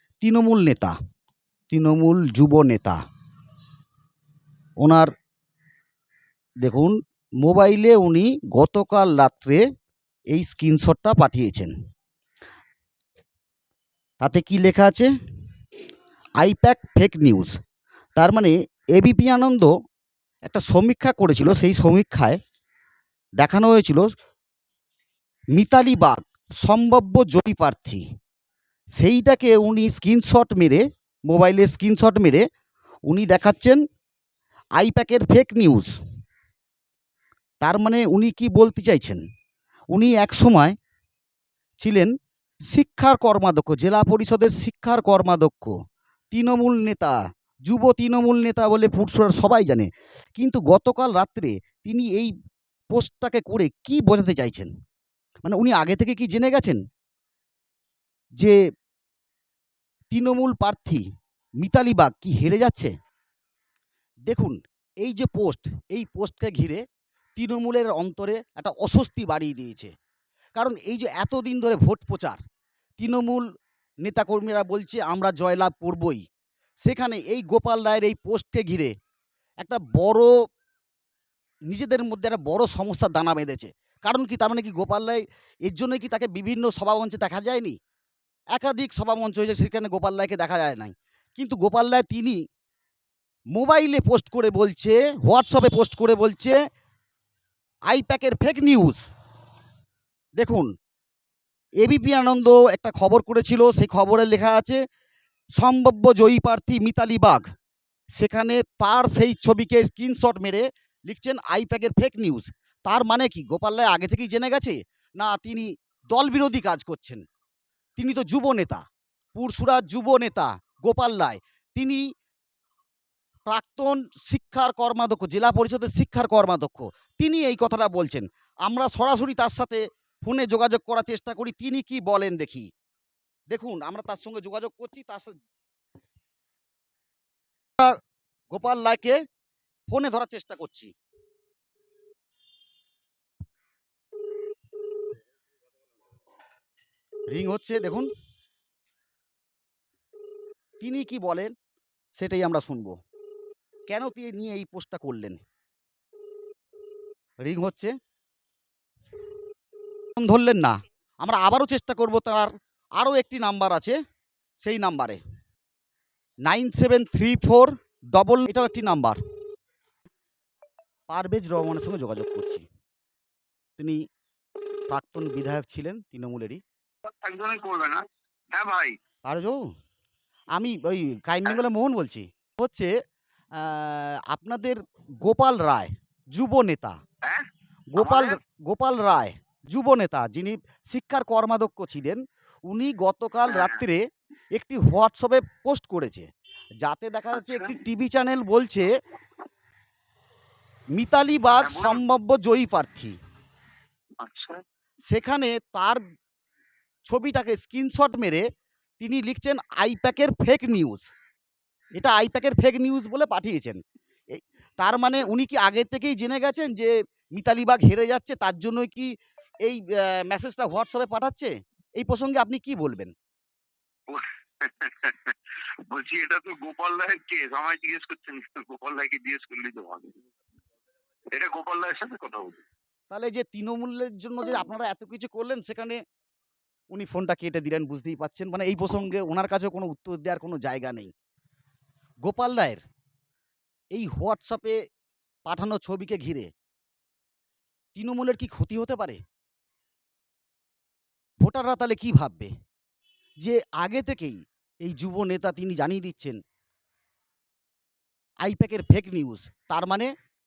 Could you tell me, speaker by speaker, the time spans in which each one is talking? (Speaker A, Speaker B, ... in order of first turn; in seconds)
Speaker A: 0.2-0.9, 1.7-3.0, 4.8-5.1, 6.6-9.6, 10.3-11.7, 14.2-15.1, 16.4-17.5, 18.2-19.7, 20.4-22.4, 23.4-24.1, 25.5-28.0, 29.0-32.4, 33.1-33.8, 34.8-35.9, 37.6-39.2, 39.9-40.8, 41.8-42.1, 42.7-45.8, 46.3-47.1, 47.7-52.3, 52.9-54.7, 55.4-56.8, 60.1-61.0, 61.6-62.9, 64.3-66.8, 67.4-69.9, 70.5-72.4, 73.0-73.4, 74.0-76.2, 76.8-78.9, 79.6-80.3, 81.7-87.7, 88.5-92.4, 93.5-96.5, 97.9-99.0, 100.4-100.7, 101.8-104.8, 105.6-107.4, 108.1-117.2, 118.0-118.8, 119.3-122.0, 123.5-132.7, 133.5-135.3, 138.5-139.2, 139.9-140.9, 147.3-148.1, 150.8-151.5, 152.2-152.9, 153.9-155.4, 157.4-157.9, 160.2-163.9, 164.6-165.2, 166.4-169.2, 171.1-172.6, 174.9-176.6, 179.2-179.6, 180.5-182.9, 183.6-187.0, 187.9-194.0, 194.5-196.3, 196.8-198.9, 200.9-203.2, 205.1-206.0, 207.0-208.4, 209.0-211.1, 212.0-213.8, 214.3-219.1, 219.6-223.1, 233.1-236.0, 236.9-241.1, 242.2-242.8, 243.9-244.8, 245.4-246.5, 247.9-249.2, 251.4-252.5, 253.4-256.4, 258.4-260.1
Speaker B: 177.1-179.0, 187.2-188.4, 193.4-193.8, 197.3-197.8, 201.6-202.0, 204.2-204.6, 224.1-225.3, 225.9-230.2, 231.3-232.6